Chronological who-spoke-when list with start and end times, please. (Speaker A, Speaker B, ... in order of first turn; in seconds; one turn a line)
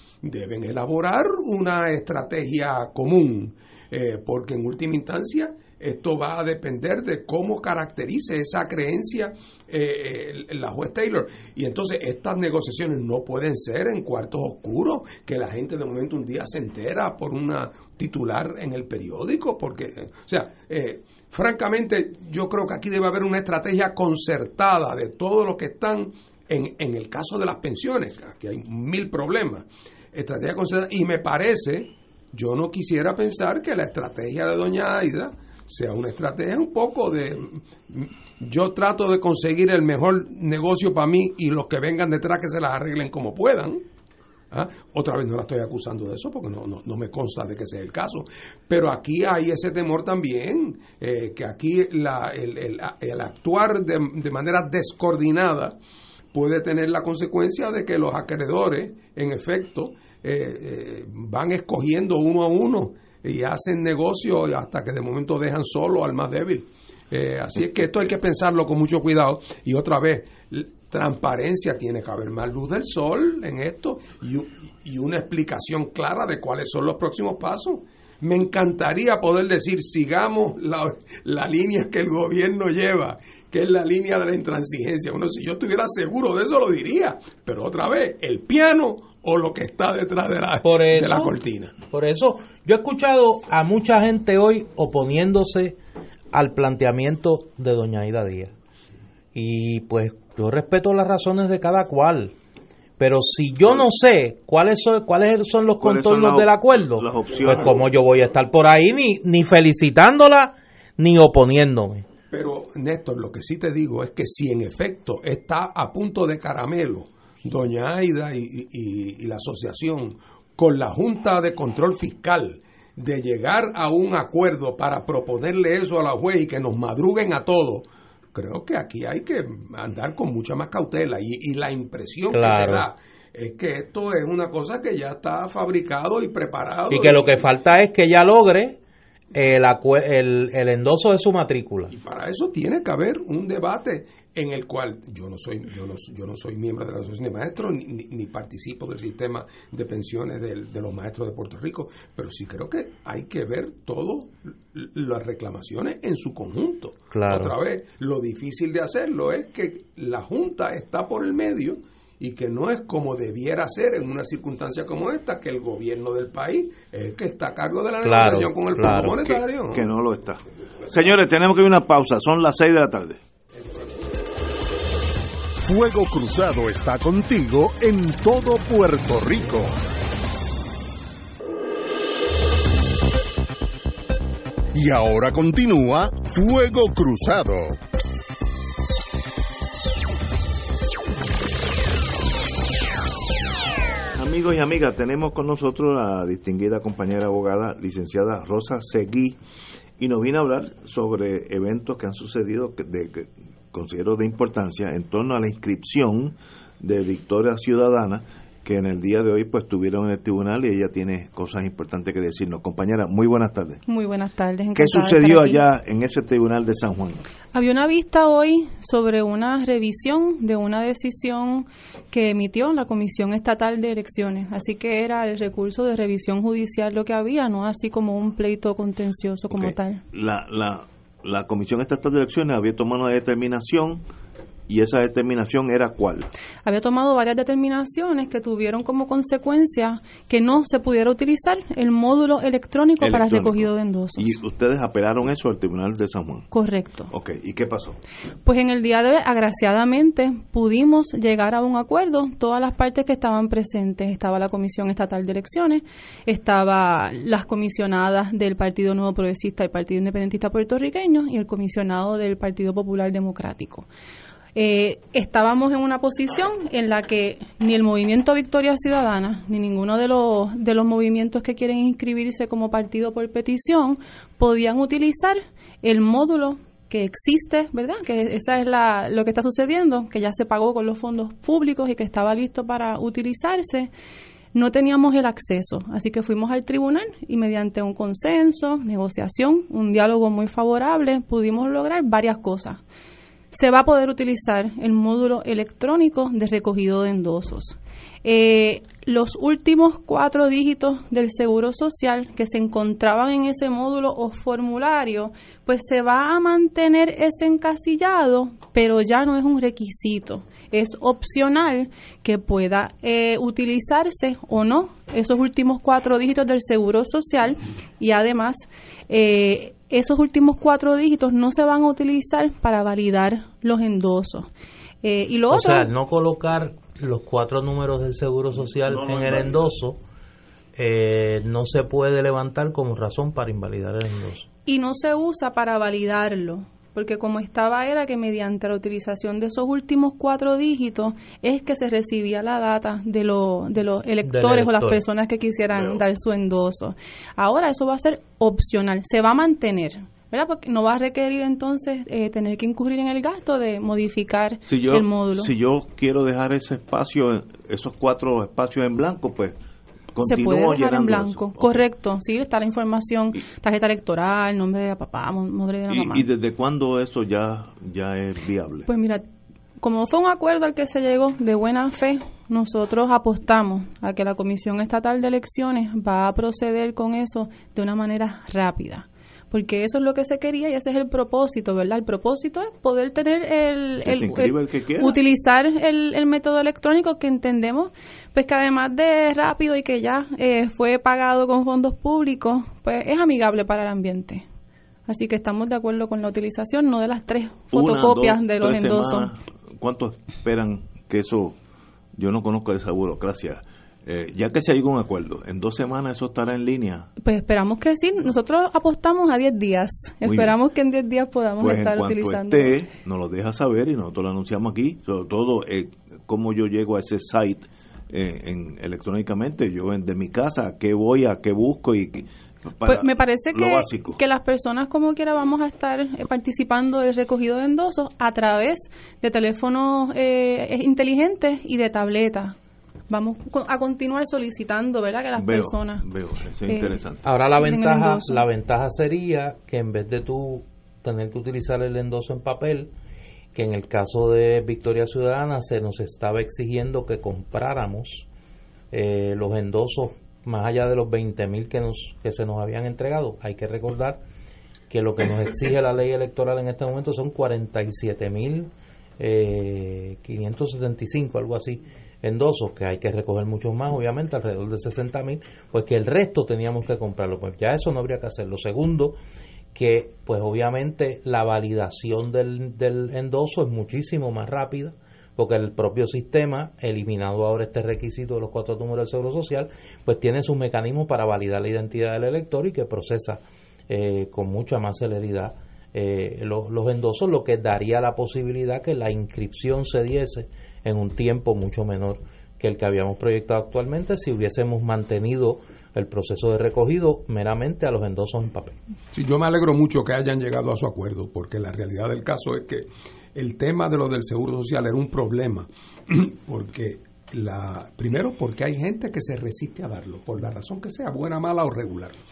Speaker A: 0.2-43.8
Speaker A: 44.5-55.8
Speaker A: 56.3-91.7
Speaker B: 90.6-91.3
Speaker B: 91.9-95.8
Speaker B: 96.3-98.5
Speaker B: 99.3-102.3
Speaker B: 103.0-112.0
Speaker C: 105.8-107.8
Speaker A: 107.3-107.8
Speaker A: 112.3-137.4
Speaker B: 132.3-132.8
Speaker B: 136.9-138.8
Speaker B: 139.3-141.9
Speaker A: 141.9-169.8
Speaker B: 157.1-157.5
Speaker B: 168.0-169.2
Speaker C: 169.2-173.2
Speaker A: 170.8-171.1
Speaker A: 173.5-174.0
Speaker D: 175.6-179.8
Speaker D: 184.7-187.8
Speaker C: 194.2-199.4
Speaker C: 200.0-213.8
Speaker E: 213.8-215.6
Speaker C: 214.7-217.2
Speaker E: 217.5-230.0
Speaker C: 229.5-234.0
Speaker C: 234.7-236.3
Speaker E: 236.6-244.4
Speaker C: 243.0-246.5
Speaker E: 246.5-247.1
Speaker C: 247.1-248.0
Speaker E: 248.4-263.9
Speaker E: 264.5-283.9
Speaker E: 284.5-292.8
Speaker E: 293.5-324.5
Speaker E: 325.0-325.9
Speaker B: 325.5-330.0
Speaker C: 328.7-329.7
Speaker B: 330.8-334.5
Speaker E: 334.6-355.5
Speaker B: 344.2-345.0
Speaker C: 345.7-346.0
Speaker C: 354.6-359.6
Speaker C: 360.1-361.8
Speaker E: 360.2-366.3
Speaker C: 365.9-368.9
Speaker E: 368.9-369.2
Speaker E: 369.8-394.5
Speaker C: 384.0-385.2
Speaker E: 395.1-399.3
Speaker C: 397.7-401.6
Speaker C: 402.1-407.1
Speaker E: 407.2-412.8
Speaker C: 410.2-410.5
Speaker C: 411.6-424.2
Speaker E: 422.8-432.6
Speaker E: 433.1-436.1
Speaker C: 435.4-437.2
Speaker E: 436.7-437.0
Speaker B: 437.2-442.9
Speaker E: 437.5-438.4
Speaker B: 443.5-448.3
Speaker B: 448.9-454.2
Speaker B: 454.9-469.2
Speaker B: 469.7-498.8
Speaker A: 499.1-512.2